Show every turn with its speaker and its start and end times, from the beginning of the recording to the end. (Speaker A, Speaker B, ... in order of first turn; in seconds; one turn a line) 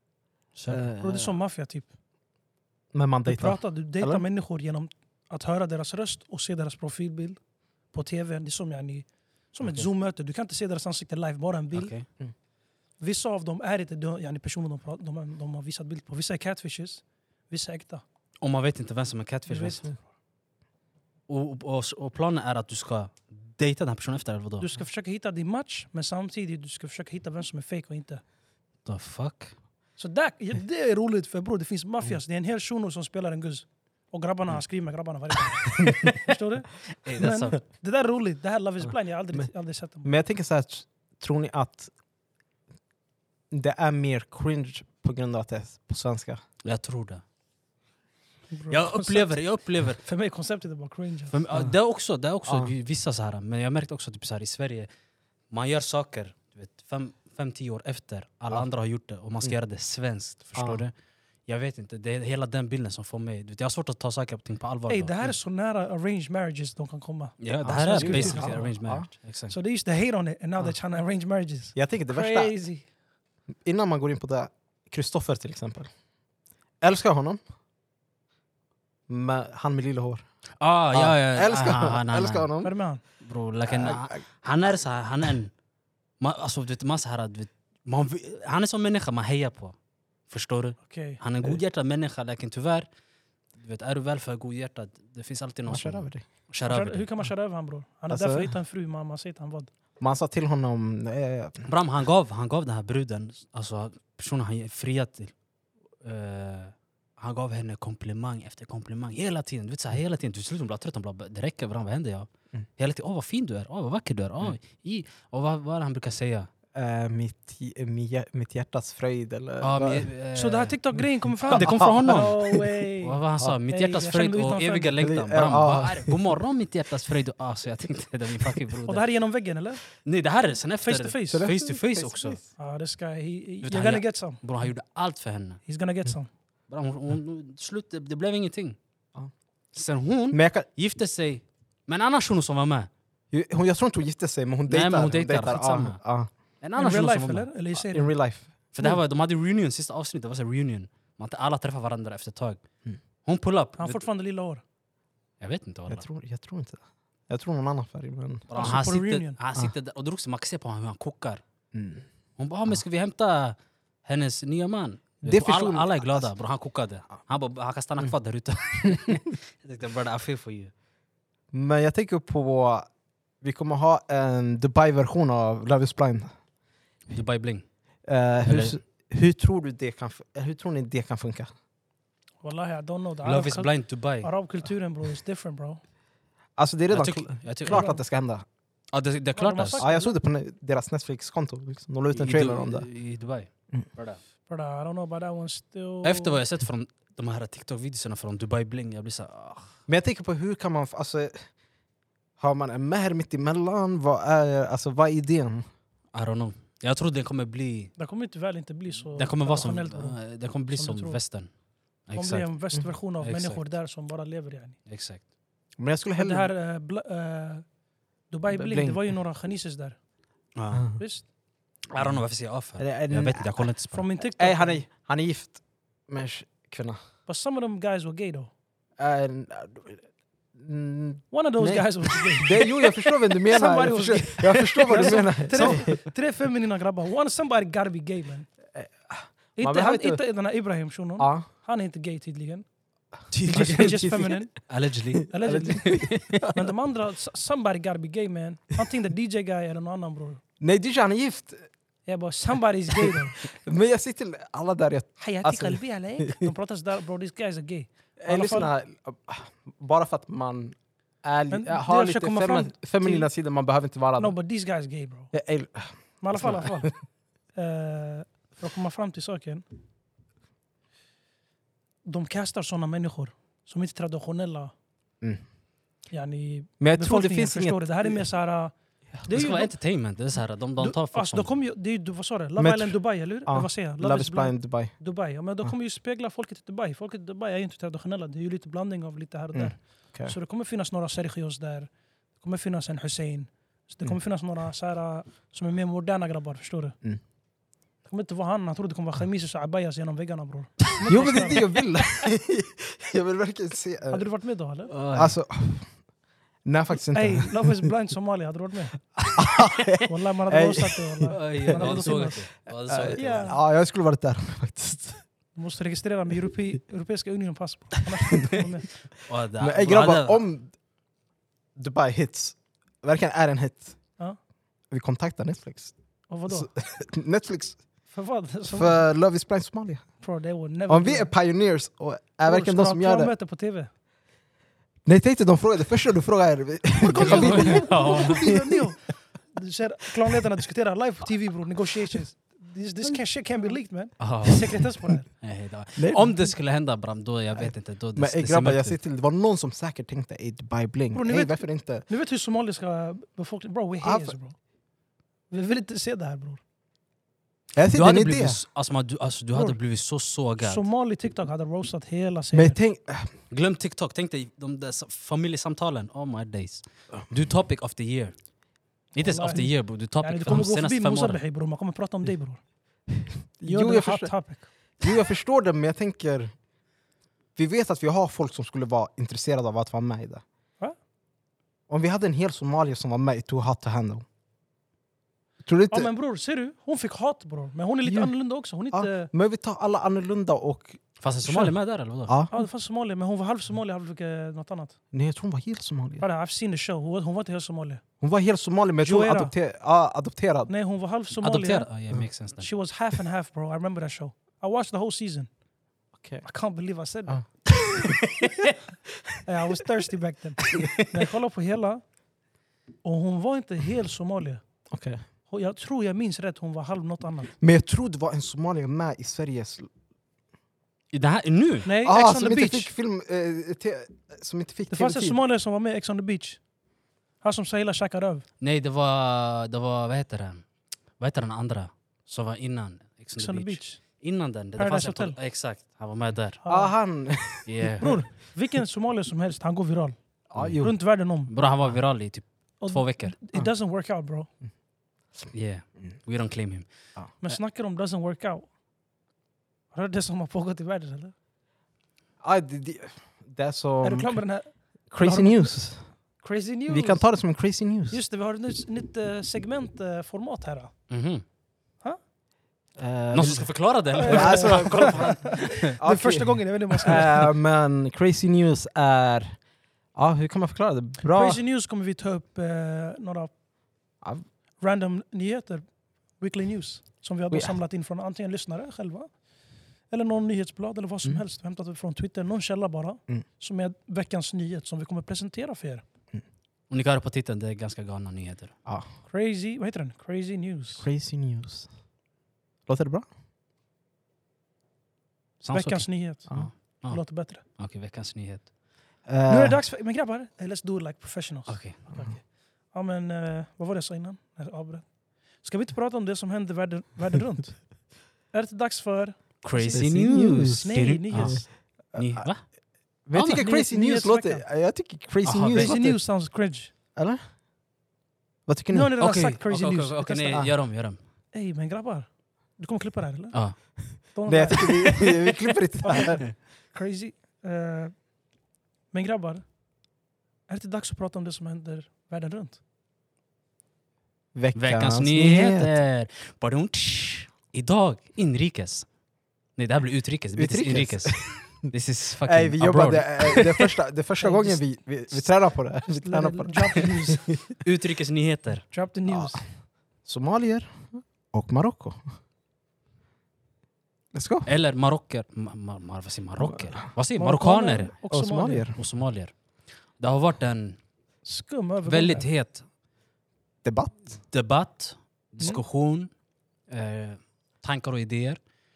Speaker A: 0.6-1.3
Speaker B: 0.7-1.0
Speaker C: 1.0-1.9
Speaker B: 2.9-4.2
Speaker C: 3.3-7.4
Speaker C: 7.9-11.9
Speaker A: 11.7-12.1
Speaker C: 13.0-18.0
Speaker A: 18.4-19.9
Speaker C: 19.5-20.0
Speaker A: 21.3-24.7
Speaker C: 24.6-28.2
Speaker A: 28.9-29.6
Speaker C: 30.0-40.1
Speaker A: 37.0-37.6
Speaker B: 40.0-41.9
Speaker B: 43.5-46.4
Speaker A: 46.6-47.2
Speaker C: 48.5-49.4
Speaker A: 48.7-50.0
Speaker C: 50.0-51.4
Speaker A: 51.3-54.9
Speaker B: 52.5-52.7
Speaker A: 55.5-60.9
Speaker B: 60.5-60.8
Speaker A: 61.5-65.3
Speaker C: 64.9-68.7
Speaker A: 67.4-69.5
Speaker B: 67.6-69.1
Speaker C: 69.5-72.8
Speaker B: 71.8-72.5
Speaker B: 73.7-75.9
Speaker B: 76.8-77.4
Speaker B: 79.1-80.2
Speaker A: 80.6-82.5
Speaker B: 80.9-82.7
Speaker C: 82.6-83.0
Speaker A: 83.2-85.5
Speaker B: 83.7-84.2
Speaker A: 86.2-89.8
Speaker A: 90.3-92.9
Speaker C: 90.8-91.2
Speaker A: 93.6-97.1
Speaker B: 95.7-96.2
Speaker C: 96.7-99.7
Speaker B: 98.1-98.5
Speaker B: 100.0-101.7
Speaker A: 101.7-105.3
Speaker A: 106.0-116.5
Speaker B: 116.7-120.1
Speaker A: 119.6-120.8
Speaker C: 120.3-125.0
Speaker A: 121.5-129.1
Speaker B: 121.5-122.8
Speaker B: 125.0-126.2
Speaker C: 128.8-129.8
Speaker A: 130.0-132.4
Speaker C: 130.8-131.5
Speaker B: 131.3-132.5
Speaker C: 132.6-134.4
Speaker A: 133.6-135.6
Speaker C: 135.7-136.3
Speaker A: 136.7-138.8
Speaker A: 139.7-142.9
Speaker B: 140.3-140.7
Speaker B: 143.3-146.3
Speaker A: 144.7-146.0
Speaker A: 146.6-147.5
Speaker C: 146.8-148.1
Speaker B: 147.8-148.9
Speaker A: 148.7-152.6
Speaker A: 153.2-154.0
Speaker C: 153.8-154.6
Speaker A: 155.4-156.1
Speaker B: 155.9-158.8
Speaker A: 158.5-161.4
Speaker C: 158.5-159.4
Speaker B: 161.7-162.1
Speaker A: 162.4-170.7
Speaker B: 165.2-166.3
Speaker B: 168.8-169.2
Speaker B: 171.5-172.9
Speaker B: 173.4-176.3
Speaker A: 177.1-177.7
Speaker B: 178.1-181.5
Speaker A: 178.4-178.8
Speaker C: 182.4-185.8
Speaker A: 183.2-184.3
Speaker B: 186.6-188.4
Speaker A: 186.9-187.8
Speaker C: 187.7-188.0
Speaker A: 188.9-189.8
Speaker C: 189.4-190.2
Speaker B: 189.8-192.9
Speaker A: 192.1-194.2
Speaker C: 194.5-196.4
Speaker A: 196.0-199.7
Speaker B: 199.9-201.5
Speaker B: 202.4-205.7
Speaker A: 206.1-207.9
Speaker C: 208.0-211.2
Speaker A: 209.2-211.5
Speaker A: 212.1-212.5
Speaker C: 212.1-214.8
Speaker A: 213.2-213.7
Speaker A: 214.9-215.2
Speaker B: 215.8-216.5
Speaker C: 216.2-217.7
Speaker C: 218.3-220.0
Speaker B: 218.5-219.1
Speaker A: 220.6-220.9
Speaker B: 220.7-221.0
Speaker C: 221.0-221.2
Speaker A: 221.9-224.0
Speaker B: 222.8-227.0
Speaker C: 223.9-224.8
Speaker C: 227.3-228.5
Speaker B: 229.0-230.0
Speaker B: 230.6-236.0
Speaker C: 231.3-238.5
Speaker A: 235.5-235.8
Speaker B: 238.7-240.2
Speaker C: 239.6-242.7
Speaker B: 241.2-241.5
Speaker A: 243.3-244.1
Speaker B: 243.5-244.4
Speaker C: 243.5-244.5
Speaker A: 244.7-246.2
Speaker C: 245.3-250.4
Speaker B: 245.4-246.7
Speaker B: 250.6-251.7
Speaker C: 252.1-253.4
Speaker B: 253.0-256.5
Speaker C: 255.2-258.7
Speaker B: 258.2-264.3
Speaker C: 261.5-263.3
Speaker C: 264.2-265.3
Speaker B: 265.3-266.9
Speaker C: 266.2-266.9
Speaker C: 267.5-269.6
Speaker C: 272.1-274.7
Speaker C: 276.1-279.7
Speaker B: 276.8-278.2
Speaker A: 279.3-281.5
Speaker C: 280.8-297.0
Speaker B: 282.6-285.0
Speaker B: 289.5-290.4
Speaker C: 298.1-301.7
Speaker B: 301.1-304.2
Speaker C: 304.1-304.9
Speaker A: 304.9-305.4
Speaker B: 305.1-305.9
Speaker B: 306.6-307.9
Speaker C: 307.1-309.1
Speaker B: 309.3-312.2
Speaker C: 310.1-312.5
Speaker A: 311.3-313.5
Speaker B: 312.8-315.2
Speaker C: 313.1-313.6
Speaker C: 315.6-318.9
Speaker A: 319.3-320.4
Speaker B: 319.6-320.7
Speaker B: 321.8-324.0
Speaker B: 324.9-325.9
Speaker C: 326.3-326.7
Speaker B: 326.5-327.8
Speaker C: 328.1-329.0
Speaker B: 328.7-330.1
Speaker C: 330.2-331.3
Speaker B: 330.9-333.3
Speaker C: 332.5-333.9
Speaker B: 335.1-338.7
Speaker C: 337.0-345.3
Speaker A: 337.2-338.5
Speaker A: 344.2-344.9
Speaker A: 345.4-349.0
Speaker B: 346.0-346.5
Speaker B: 347.6-352.1
Speaker C: 351.1-354.6
Speaker B: 354.0-354.3
Speaker C: 355.5-356.6
Speaker B: 357.8-358.6
Speaker A: 357.9-360.9
Speaker C: 359.5-359.8
Speaker C: 360.6-362.8
Speaker B: 362.5-363.3
Speaker A: 363.5-368.4
Speaker A: 369.1-371.4
Speaker C: 369.2-372.6
Speaker B: 373.6-374.3
Speaker C: 373.7-374.7
Speaker B: 375.0-376.5
Speaker B: 377.6-380.4
Speaker B: 381.9-384.2
Speaker B: 385.6-386.1
Speaker C: 385.9-389.3
Speaker B: 388.1-388.3
Speaker B: 388.9-391.7
Speaker A: 391.2-392.3
Speaker B: 392.3-392.5
Speaker C: 392.5-395.0
Speaker B: 395.1-396.2
Speaker C: 396.2-398.0
Speaker B: 398.2-400.7
Speaker C: 399.0-399.5
Speaker C: 400.7-401.9
Speaker A: 401.4-402.7
Speaker C: 402.6-405.5
Speaker B: 406.2-406.4
Speaker C: 406.4-407.5
Speaker B: 407.3-408.2
Speaker A: 408.4-408.7
Speaker C: 409.4-412.0
Speaker C: 413.0-414.6
Speaker B: 414.9-415.2
Speaker C: 415.5-417.6
Speaker B: 417.6-419.9
Speaker A: 421.1-421.9
Speaker C: 421.9-422.9
Speaker B: 422.0-425.4
Speaker C: 424.9-426.6
Speaker C: 427.4-428.5
Speaker A: 428.6-430.6
Speaker A: 431.2-436.6
Speaker C: 433.4-434.0
Speaker C: 434.8-435.4
Speaker C: 436.6-436.9
Speaker B: 436.7-438.3
Speaker A: 437.7-438.2
Speaker C: 438.0-440.2
Speaker B: 440.5-440.9
Speaker A: 440.6-440.8
Speaker C: 440.8-441.5
Speaker A: 441.5-443.3
Speaker C: 442.8-444.5
Speaker A: 445.5-446.9
Speaker C: 447.4-448.7
Speaker C: 449.9-451.3
Speaker B: 452.4-454.4
Speaker C: 454.0-455.9
Speaker B: 455.1-456.1
Speaker C: 456.4-457.2
Speaker B: 456.9-458.2
Speaker C: 458.1-460.9
Speaker A: 461.1-461.4
Speaker B: 463.0-469.6
Speaker A: 463.3-465.9
Speaker C: 464.1-467.5
Speaker B: 470.1-471.6
Speaker C: 471.2-473.5
Speaker C: 474.8-475.9
Speaker C: 476.4-479.3
Speaker B: 477.5-477.8
Speaker C: 480.1-486.0
Speaker A: 486.9-488.7
Speaker C: 489.3-491.1
Speaker B: 491.0-491.9
Speaker B: 492.9-493.3
Speaker A: 495.6-498.7
Speaker C: 495.7-497.6
Speaker B: 499.3-499.8
Speaker C: 499.5-508.0
Speaker A: 501.7-502.0
Speaker C: 508.5-511.7
Speaker A: 509.6-512.6
Speaker B: 509.9-512.5
Speaker B: 513.3-516.2
Speaker C: 513.4-514.6
Speaker A: 515.4-516.0
Speaker C: 515.7-516.9
Speaker B: 517.1-517.4
Speaker B: 518.7-519.1
Speaker C: 518.9-520.7
Speaker A: 519.2-521.2
Speaker C: 521.5-523.8
Speaker C: 524.3-528.2
Speaker B: 524.5-526.4
Speaker C: 529.1-529.7
Speaker C: 530.7-532.8
Speaker B: 534.5-536.0
Speaker A: 534.8-539.1
Speaker A: 539.8-543.9
Speaker B: 540.6-541.9
Speaker B: 542.4-547.6
Speaker C: 544.4-544.8
Speaker C: 546.0-547.5
Speaker A: 547.8-548.9
Speaker C: 548.9-549.7
Speaker B: 549.3-549.7
Speaker B: 550.2-552.2
Speaker B: 554.3-554.7
Speaker A: 554.7-558.1
Speaker C: 557.4-558.9
Speaker B: 558.3-559.0
Speaker A: 559.0-559.5
Speaker A: 560.2-561.0
Speaker C: 561.5-562.5
Speaker A: 562.0-562.9
Speaker B: 563.8-564.4
Speaker A: 564.4-566.3
Speaker A: 566.9-568.6